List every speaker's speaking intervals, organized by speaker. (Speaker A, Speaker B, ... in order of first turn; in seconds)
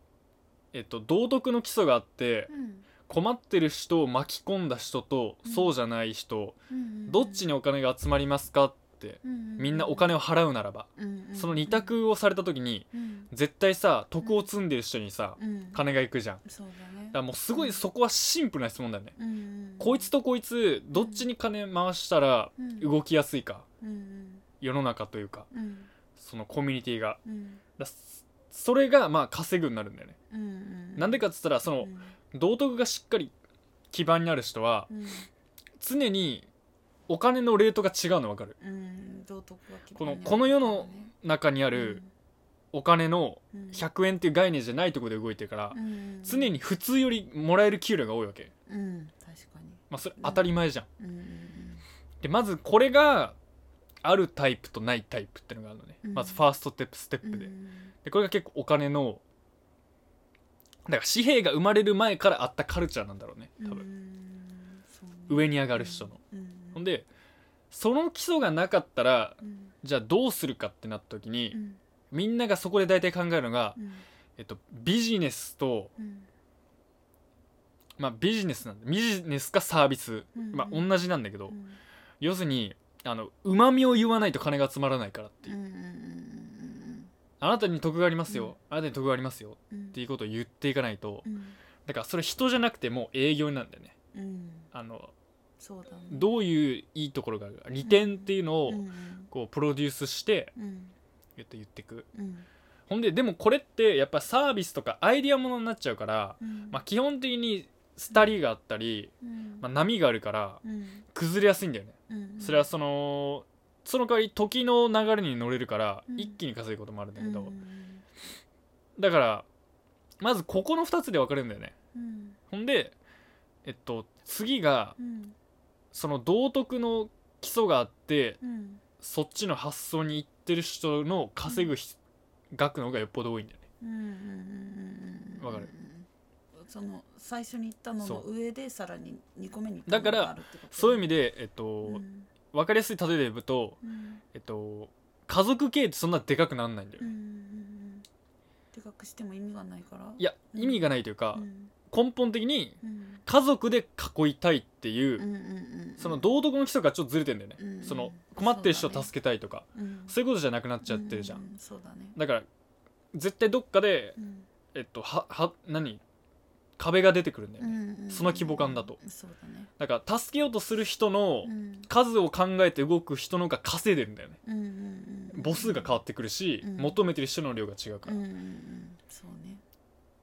Speaker A: 0.7-2.5, 3.1-16.4, 17.1-19.1, 19.8-23.7, 24.6-25.5, 26.2-27.2, 27.8-30.2, 31.0-33.3, 33.9-34.9, 35.8-36.5, 37.1-38.6, 40.0-42.0, 42.7-48.5, 49.9-50.9, 52.2-53.4, 54.0-57.5, 58.0-59.2, 60.9-63.9, 65.3-66.2, 66.8-67.1, 67.7-71.6, 72.1-73.8, 74.4-75.9, 78.0-81.6, 82.2-85.5, 87.4-91.3, 91.8-94.0, 94.7-95.1, 96.1-100.5, 101.4-102.1, 102.9-117.6, 119.0-119.5, 120.2-121.8, 122.5-123.0, 123.7-125.0, 125.9-128.4, 129.0-132.0, 132.5-133.6, 135.4-135.7, 139.9-143.8, 144.3-147.1, 150.2-155.3, 156.0-161.4, 162.2-162.5, 163.1-164.2, 164.7-166.0, 166.8-169.0, 169.8-174.4, 175.3-178.2
Speaker B: 2.5-2.9, 5.4-5.8, 6.7-7.5, 9.2-10.1, 11.0-12.0, 12.9-13.3, 14.2-14.5, 15.4-15.8, 16.4-17.9, 19.2-20.1, 20.9-21.3, 22.6-22.9, 23.8-24.5, 25.5-25.9, 27.2-27.6, 30.3-31.2, 31.8-32.2, 34.9-35.3, 38.6-41.1, 41.7-42.1, 43.5-43.8, 45.7-46.6, 48.7-51.8, 56.0-56.5, 57.2-57.9, 63.6-66.8, 69.4-69.7, 71.5-71.8, 73.8-74.1, 76.0-76.3, 80.3-80.9, 81.5-81.8, 85.5-87.1, 88.3-88.6, 89.7-90.0, 91.2-91.6, 94.1-94.7, 95.6-96.4, 97.8-99.3, 100.5-101.0, 102.1-102.5, 106.4-106.8, 109.2-109.7, 110.6-111.0, 112.1-112.7, 116.1-116.4, 117.2-118.0, 121.9-122.4, 125.0-125.4, 128.4-128.8, 133.8-141.1, 141.8-142.3, 143.8-144.2, 147.0-148.1, 148.7-151.7, 152.8-153.2, 155.2-156.3, 157.6-159.1, 159.7-160.2, 160.8-162.2, 164.2-164.5, 167.6-169.7, 171.4-171.9, 174.4-176.0, 176.6-177.0, 178.1-179.6